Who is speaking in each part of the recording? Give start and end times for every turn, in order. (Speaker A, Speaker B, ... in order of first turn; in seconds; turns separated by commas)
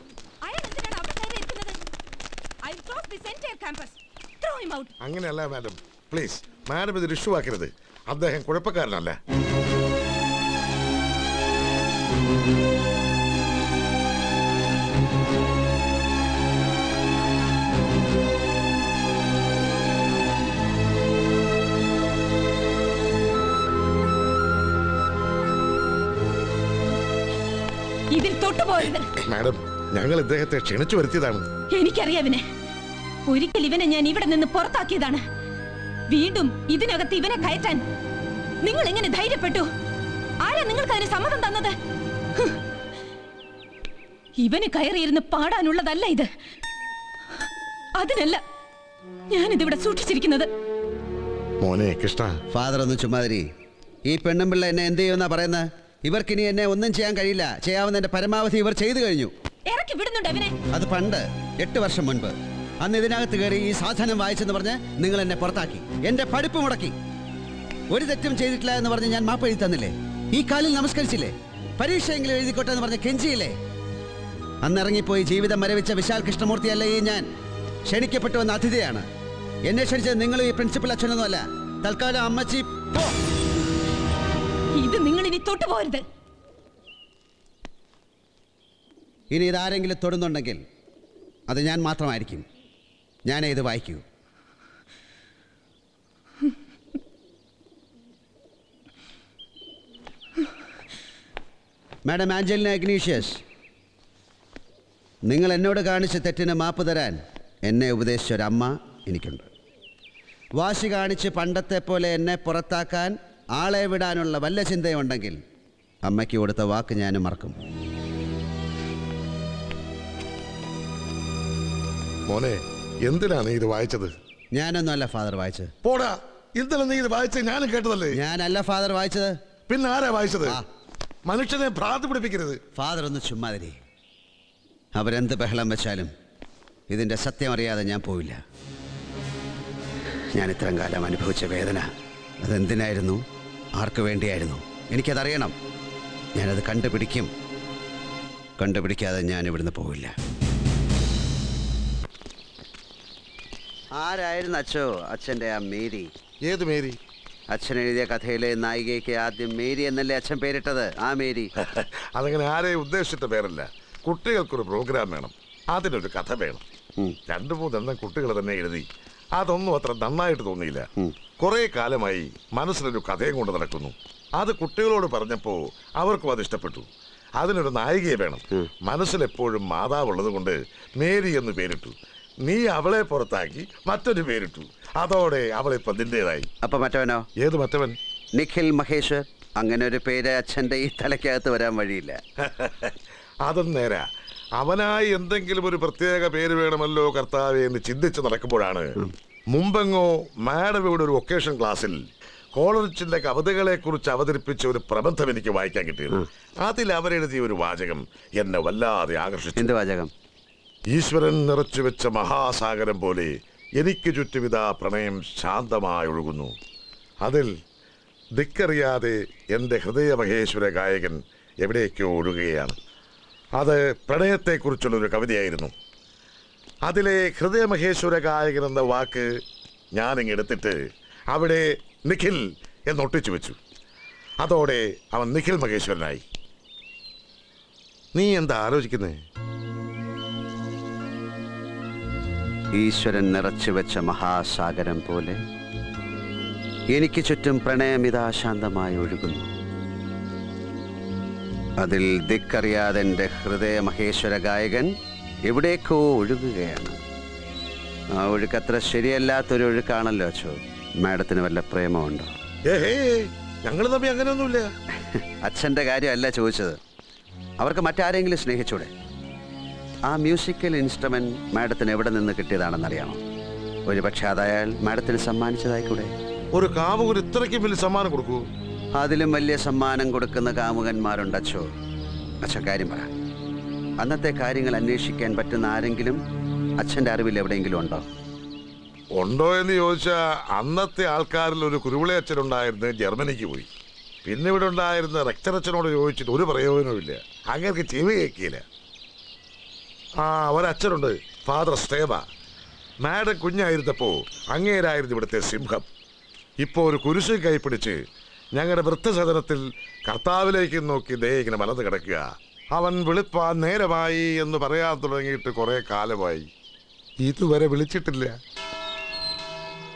Speaker A: 0.4-1.8, Speaker A: 2.6-4.9, Speaker B: 5.0-9.2, Speaker A: 28.1-29.2, Speaker B: 29.2-31.5, Speaker A: 31.7-32.4, Speaker A: 33.3-35.2, Speaker A: 36.1-37.8, Speaker A: 38.6-39.7, Speaker A: 40.4-41.7, Speaker A: 44.4-46.3, Speaker A: 47.9-48.4, Speaker A: 49.3-50.5, Speaker B: 51.6-52.4, Speaker C: 52.5-53.5, Speaker C: 54.1-59.3, Speaker A: 59.7-60.5, Speaker C: 60.7-66.9, Speaker C: 67.9-73.5, Speaker C: 74.6-77.3, Speaker C: 77.9-79.0, Speaker C: 79.7-83.1, Speaker A: 84.8-86.0, Speaker C: 89.3-90.6, Speaker C: 91.5-92.4, Speaker C: 93.2-94.0, Speaker C: 102.0-103.4, Speaker C: 105.3-109.5, Speaker C: 110.6-115.4, Speaker C: 116.0-117.5, Speaker B: 122.3-124.1, Speaker C: 124.5-125.7, Speaker B: 125.8-128.2, Speaker C: 128.1-129.3, Speaker B: 129.7-130.6, Speaker B: 131.2-132.6, Speaker C: 132.8-133.8, Speaker C: 134.9-136.1, Speaker C: 136.9-138.4, Speaker C: 140.3-141.9, Speaker C: 142.4-143.2, Speaker C: 143.8-145.5, Speaker C: 146.3-147.3, Speaker C: 148.6-150.1, Speaker C: 153.9-156.1, Speaker B: 156.4-157.0, Speaker C: 157.5-161.5, Speaker B: 161.6-166.6, Speaker B: 167.3-170.9, Speaker B: 171.4-186.5, Speaker C: 186.6-187.3, Speaker B: 187.4-188.0, Speaker C: 188.3-192.2, Speaker B: 192.4-199.0, Speaker B: 199.5-202.0, Speaker B: 202.5-209.7, Speaker C: 209.6-210.1, Speaker B: 210.9-216.5, Speaker B: 217.2-217.5, Speaker B: 218.3-222.8, Speaker B: 223.6-225.7, Speaker B: 226.8-229.3, Speaker B: 229.9-230.8, Speaker B: 231.3-233.6, Speaker B: 234.4-236.2, Speaker B: 238.1-239.2, Speaker C: 242.8-245.4, Speaker C: 246.9-249.5, Speaker C: 251.8-254.9, Speaker C: 255.5-257.0, Speaker C: 258.1-262.4, Speaker B: 262.6-264.7, Speaker C: 265.1-266.8, Speaker C: 267.6-268.9, Speaker C: 270.1-273.2, Speaker C: 273.9-276.1, Speaker B: 276.5-278.4, Speaker C: 279.0-281.6, Speaker C: 282.4-283.1, Speaker C: 284.0-286.2, Speaker C: 286.8-288.0, Speaker B: 289.1-293.7, Speaker B: 294.2-298.6, Speaker B: 300.2-302.2, Speaker B: 303.0-305.9, Speaker B: 306.6-308.0, Speaker B: 308.5-316.5, Speaker B: 317.2-318.4